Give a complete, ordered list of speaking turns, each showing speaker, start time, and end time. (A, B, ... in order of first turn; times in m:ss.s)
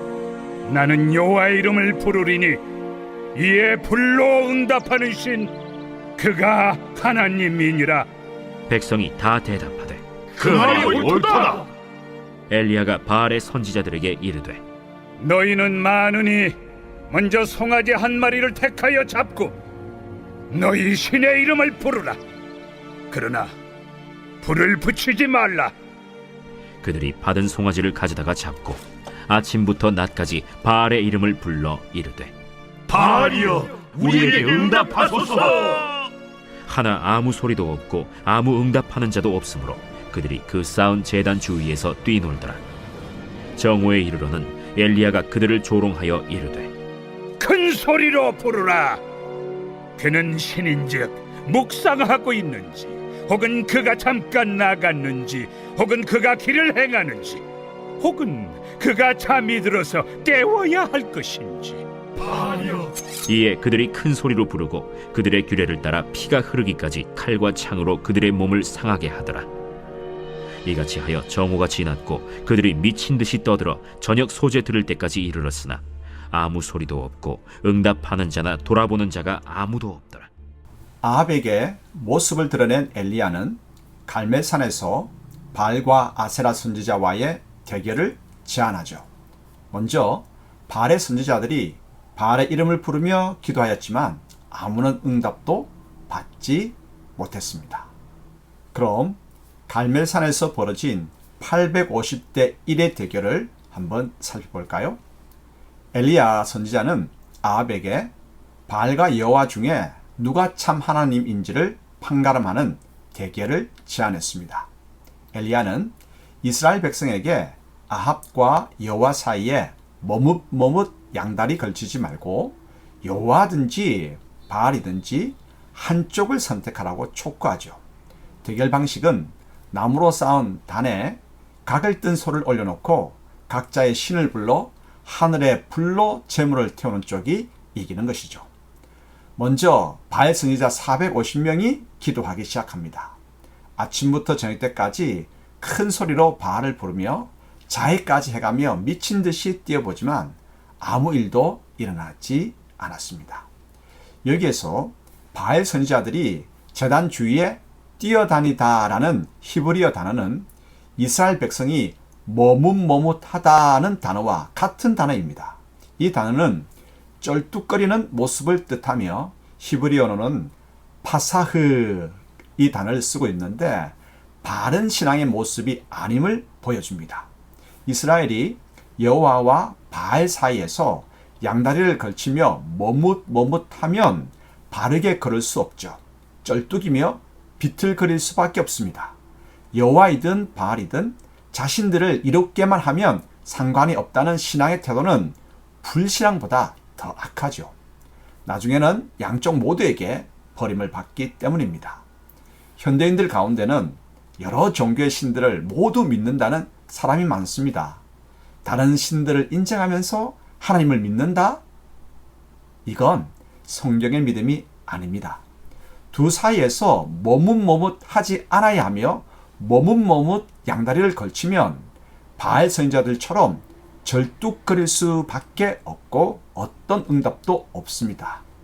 0:00.6-0:02.6 A
0:03.3-0:05.5 A
0:06.2-0:08.1 A
0:08.7-0:11.0 B
0:10.4-0:11.2 A
0:10.6-0:11.6 C
0:12.5-0:14.6 B
0:15.2-0:16.5 A
0:17.1-0:19.5 A
0:20.5-0:22.2 A
0:23.1-0:23.5 A
0:24.4-0:25.7 A
0:26.8-0:32.3 B
0:33.0-0:35.7 C
0:34.0-0:35.5 B
0:36.7-0:42.6 B
0:43.6-0:46.7 B
0:47.4-0:49.0 A
0:50.0-0:57.4 A
0:58.0-1:01.8 A
1:02.3-1:09.5 B
1:10.6-1:20.3 B
1:21.0-1:29.1 D
1:29.7-1:37.9 D
1:38.7-1:45.0 D
1:45.9-1:48.1 D
1:48.7-1:54.7 D
1:55.3-2:07.8 D
2:08.4-2:18.5 D
2:19.4-2:23.2 D
2:23.8-2:33.5 D
2:34.2-2:46.7 D
2:47.2-2:57.3 D
2:57.8-3:09.2 D
3:09.7-3:17.7 D
3:18.4-3:22.0 D
3:22.8-3:28.0 D
3:28.6-3:31.6 D
3:32.8-3:35.4 D
3:36.1-3:48.4 D